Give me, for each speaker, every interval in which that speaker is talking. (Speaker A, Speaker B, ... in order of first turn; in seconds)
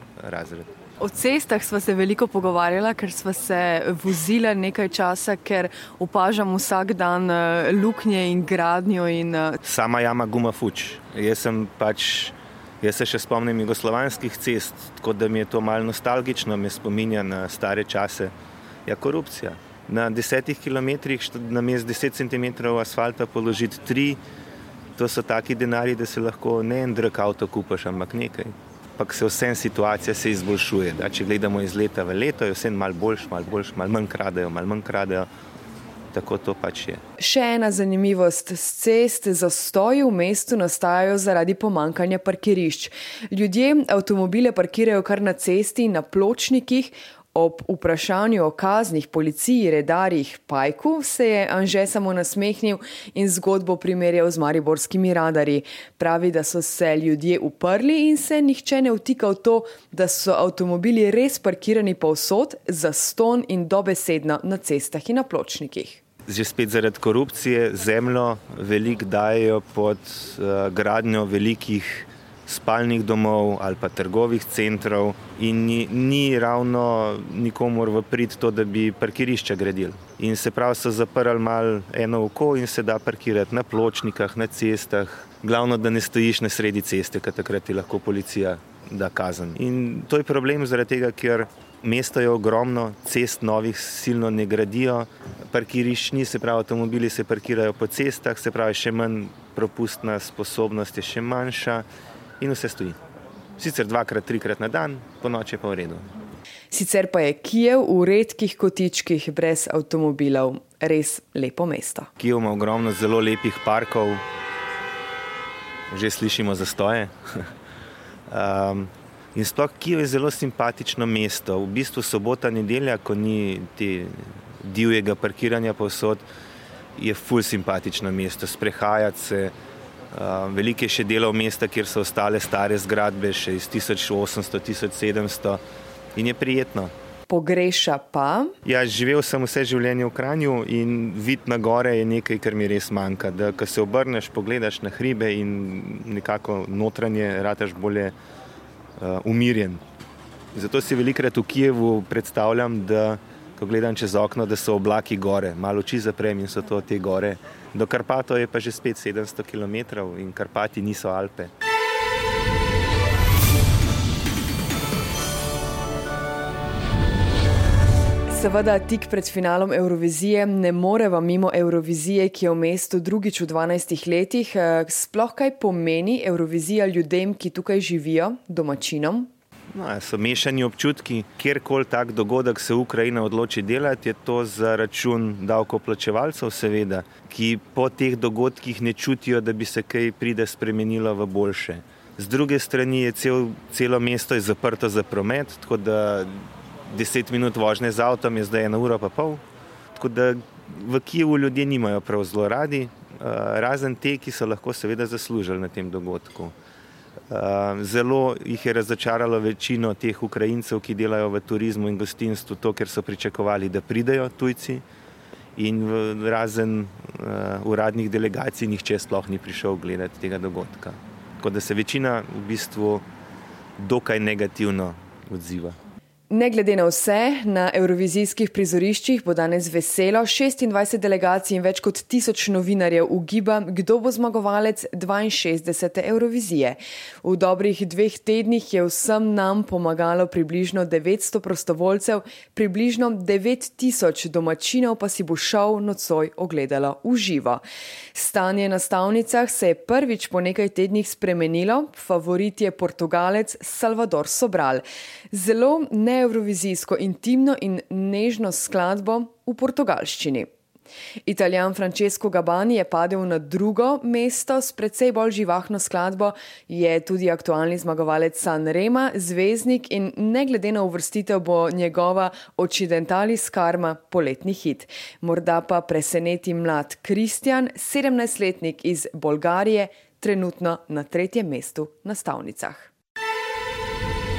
Speaker A: 0.2-0.7, 9.6-18.3, 18.9-24.2, 25.0-35.3, 36.1-37.0, 66.3-101.8, 102.4-103.0, 103.6-106.0, 112.2-114.2, 115.9-117.1, 118.3-126.2, 127.0-129.5, 130.1-135.6, 136.2-136.9, 138.7-148.1, 149.0-149.8, 150.6-161.5, 179.7-199.4, 199.9-206.5, 207.3-214.8, 215.6-223.0, 223.8-225.8
Speaker B: 1.0-9.6, 37.2-66.0, 106.7-112.1, 137.3-138.6, 168.3-179.3, 226.3-247.6, 248.1-260.5, 261.3-282.9